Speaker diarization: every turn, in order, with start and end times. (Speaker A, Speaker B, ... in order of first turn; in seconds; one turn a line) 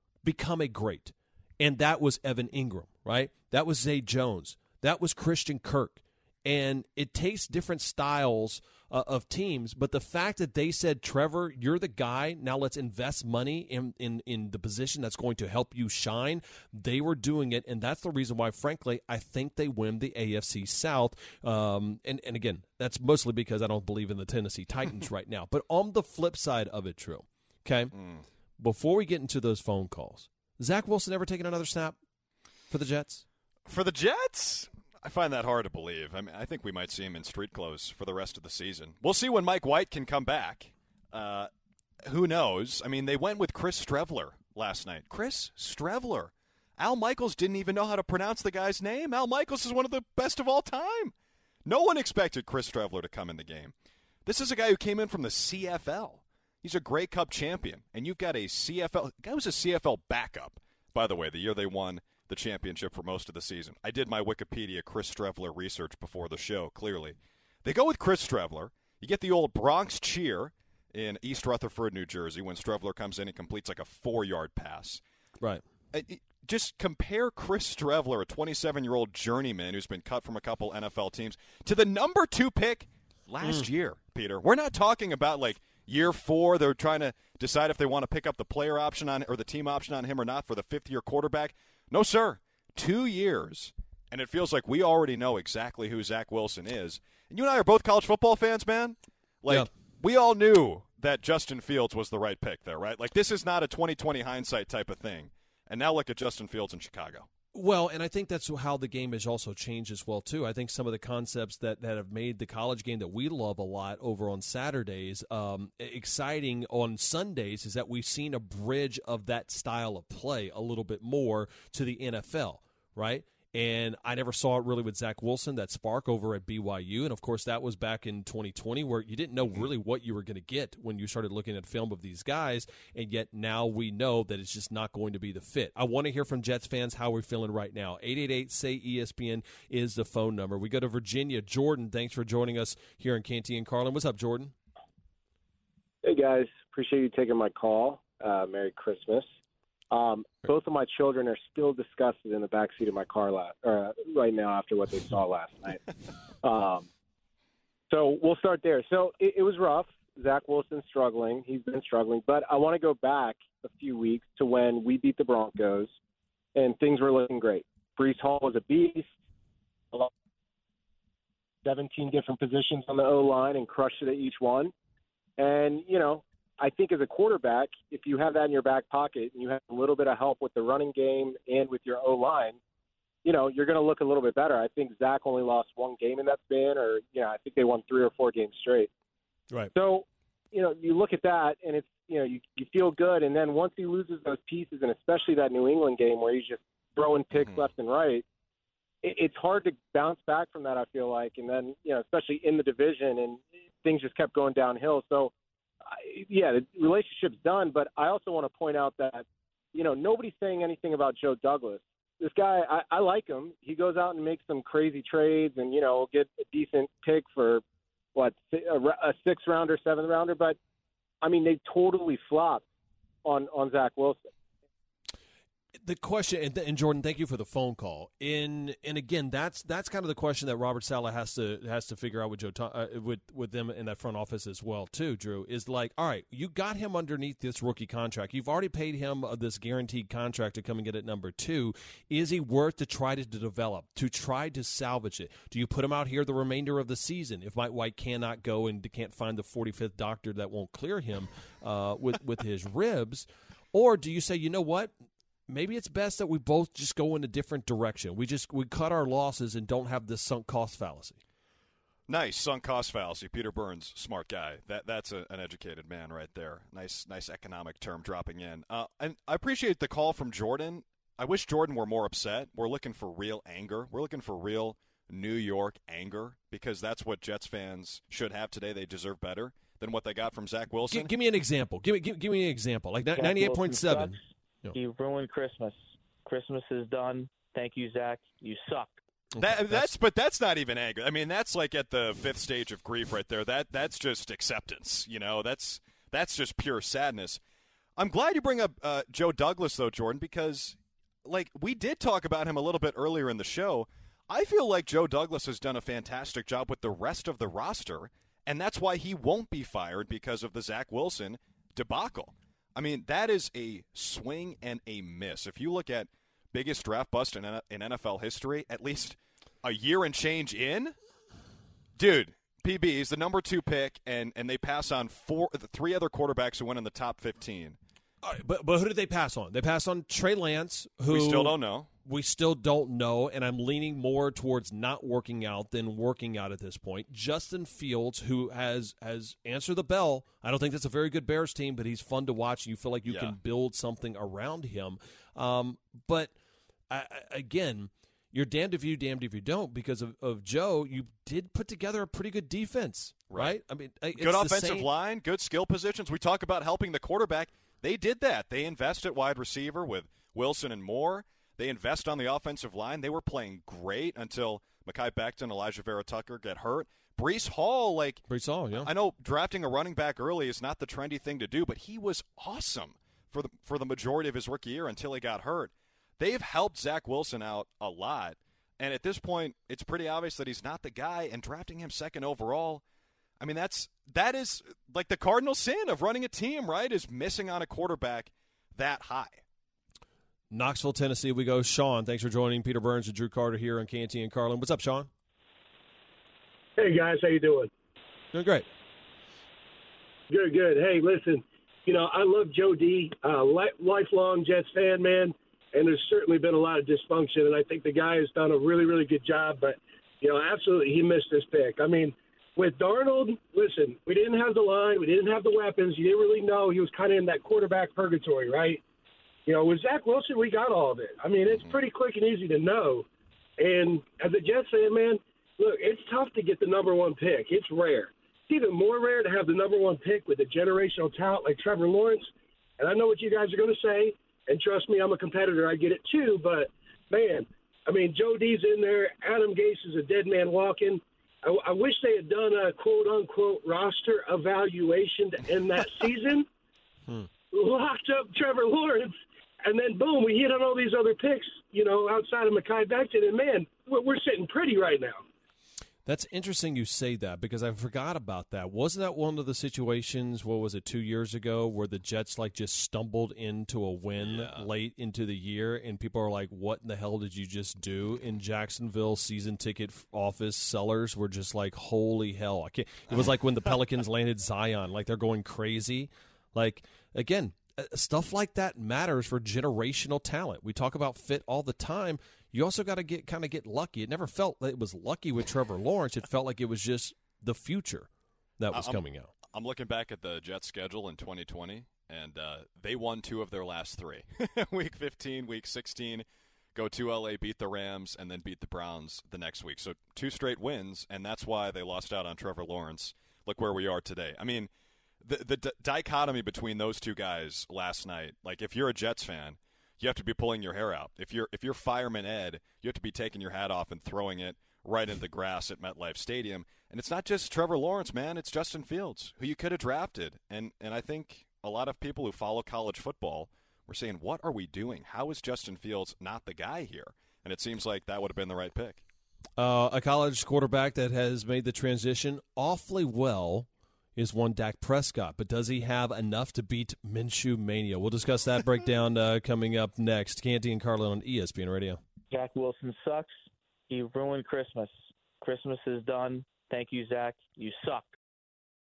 Speaker A: 0.2-27.9
Speaker B: 27.9-28.2
Speaker A: 28.6-32.0
Speaker A: 32.7-33.2
Speaker B: 33.7-41.5
Speaker B: 42.1-51.1
Speaker B: 51.7-53.7
Speaker B: 54.3-75.0
Speaker B: 75.9-107.3
Speaker A: 83.4-83.7
Speaker A: 107.5-144.5
Speaker C: 146.0-149.3
Speaker C: 149.9-156.9
Speaker C: 157.9-165.9
Speaker C: 166.6-169.1
Speaker C: 171.7-174.7
Speaker C: 175.4-182.6
Speaker C: 183.2-188.9
Speaker C: 189.8-198.2
Speaker C: 199.0-205.3
Speaker C: 205.9-217.6
Speaker C: 218.2-220.6
Speaker C: 221.2-222.6
Speaker C: 223.2-224.3
Speaker A: 225.8-254.9
Speaker A: 255.5-261.2
Speaker B: 262.1-281.1
Speaker A: 280.9-284.8
Speaker D: 283.1-284.2
Speaker D: 284.7-289.0
Speaker A: 289.4-289.9
Speaker B: 289.4-297.4
Speaker B: 298.0-320.9
Speaker B: 322.0-327.8
Speaker A: 328.2-346.3
Speaker B: 331.1-331.9
Speaker B: 343.1-343.4
Speaker A: 346.9-354.9
Speaker B: 353.3-353.6
Speaker B: 354.1-368.2
Speaker A: 368.3-368.9
Speaker B: 368.8-382.8
Speaker B: 383.4-389.4
Speaker A: 390.5-395.1
Speaker E: 396.8-397.7
Speaker A: 398.3-398.7
Speaker E: 400.3-418.8
Speaker E: 419.5-423.1
Speaker B: 421.5-421.8
Speaker E: 423.6-446.5
Speaker E: 447.5-455.3
Speaker A: 456.1-488.1
Speaker B: 464.2-464.7
Speaker A: 488.6-489.3
Speaker B: 488.7-504.7
Speaker B: 505.2-529.0
Speaker A: 529.6-542.0
Speaker D: 542.3-543.4
Speaker D: 543.9-548.1